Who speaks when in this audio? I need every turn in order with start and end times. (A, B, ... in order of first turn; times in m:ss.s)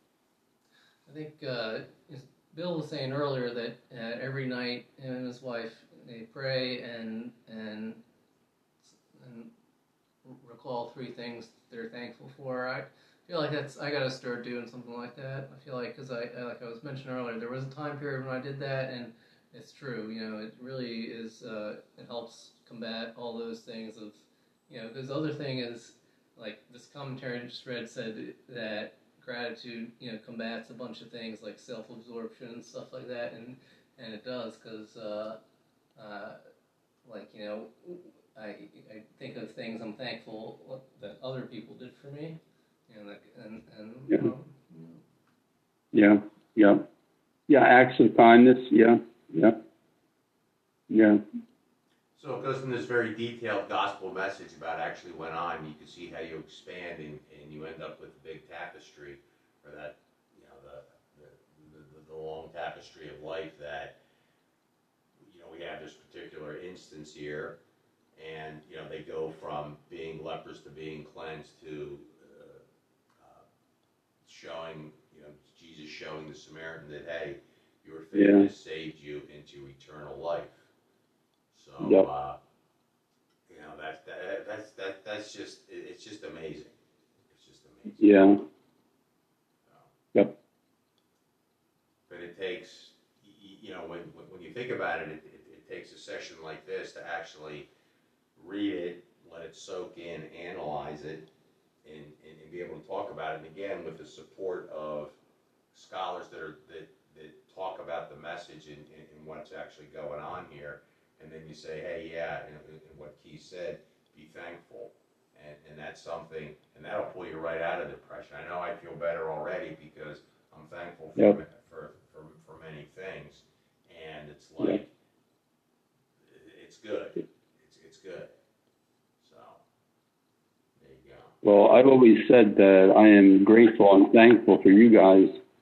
0:01.1-0:08.0 A
0:08.8-0:09.5 A
0:10.2-0:35.4 A
0:36.0-0:36.4 A
0:37.0-0:45.0 A
0:45.9-0:46.8 B
0:47.5-0:49.6 B
0:50.9-0:51.2 B
0:52.2-1:04.0 C
1:05.2-1:07.6 C
1:08.2-1:12.6 C
1:13.2-1:13.4 C
1:14.2-1:20.6 C
1:18.1-1:18.5 B
1:21.5-1:22.4 C
1:21.8-1:22.1 B
1:23.5-1:28.3 C
1:28.0-1:28.4 B
1:32.1-1:37.7 C
1:38.4-1:41.3 C
1:41.8-1:45.2 C
1:45.7-2:04.9 C
2:06.2-2:08.3 C
2:09.2-2:09.6 C
2:10.8-2:11.4 C
2:11.4-2:15.4 B